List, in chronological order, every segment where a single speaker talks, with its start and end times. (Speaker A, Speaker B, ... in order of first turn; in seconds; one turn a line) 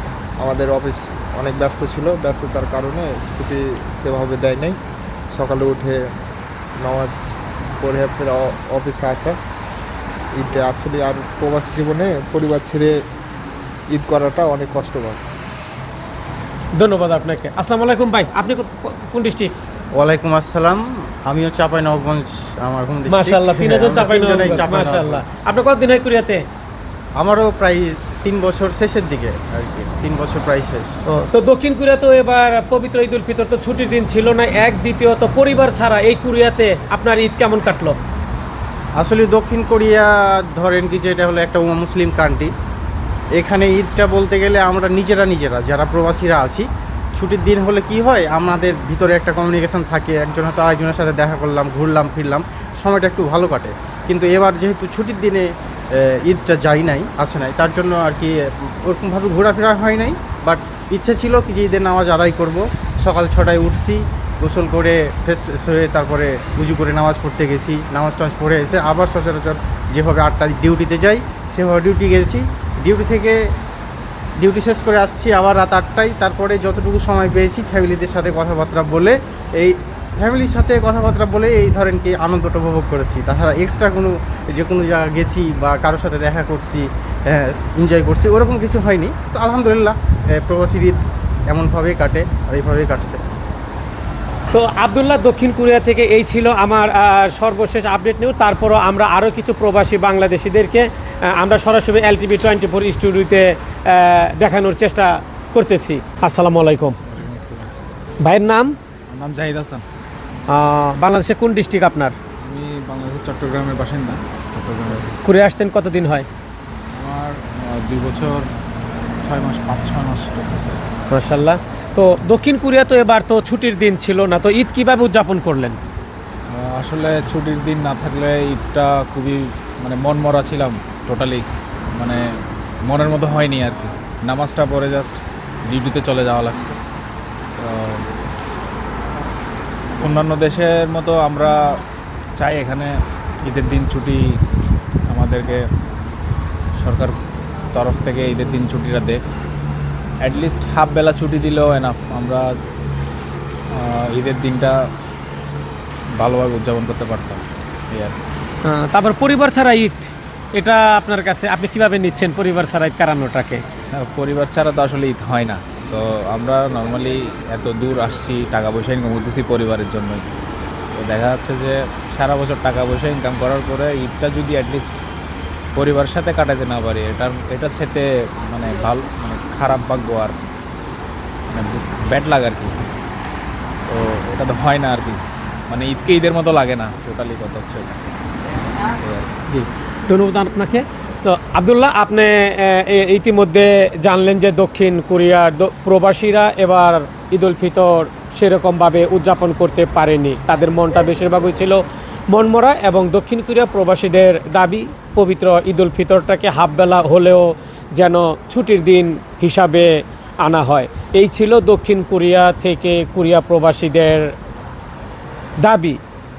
Speaker A: 0.4-4.8
Speaker A: 5.3-6.0
Speaker A: 6.8-7.1
Speaker A: 7.8-9.4
Speaker A: 10.3-13.0
Speaker A: 13.9-15.2
Speaker B: 16.7-19.5
Speaker C: 19.9-25.3
Speaker B: 23.1-26.4
Speaker C: 27.2-30.9
Speaker B: 31.1-38.0
Speaker C: 39.0-42.5
Speaker C: 43.4-73.4
Speaker C: 74.4-93.2
Speaker B: 94.5-107.0
Speaker D: 107.1-107.7
Speaker B: 108.2-108.8
Speaker D: 109.1-109.8
Speaker B: 110.5-112.2
Speaker D: 112.4-115.2
Speaker B: 115.2-116.3
Speaker D: 116.9-118.5
Speaker D: 119.2-120.8
Speaker B: 121.1-125.8
Speaker D: 126.5-132.2
Speaker D: 132.8-136.8
Speaker D: 137.6-138.1
Speaker D: 140.0-141.6
Speaker D: 142.4-142.9
Speaker D: 143.4-144.2
Speaker D: 145.1-145.6
Speaker D: 146.8-147.2
Speaker D: 147.7-149.2
Speaker D: 150.2-152.5
Speaker D: 153.7-154.8
Speaker D: 156.2-158.1
Speaker B: 158.7-163.6
Speaker D: 163.9-170.2
Speaker D: 170.9-175.0
Speaker D: 175.7-180.4
Speaker D: 181.5-182.7
Speaker D: 183.9-185.2
Speaker D: 185.7-188.0
Speaker D: 188.9-189.3
Speaker B: 189.5-214.3
Speaker B: 215.6-216.0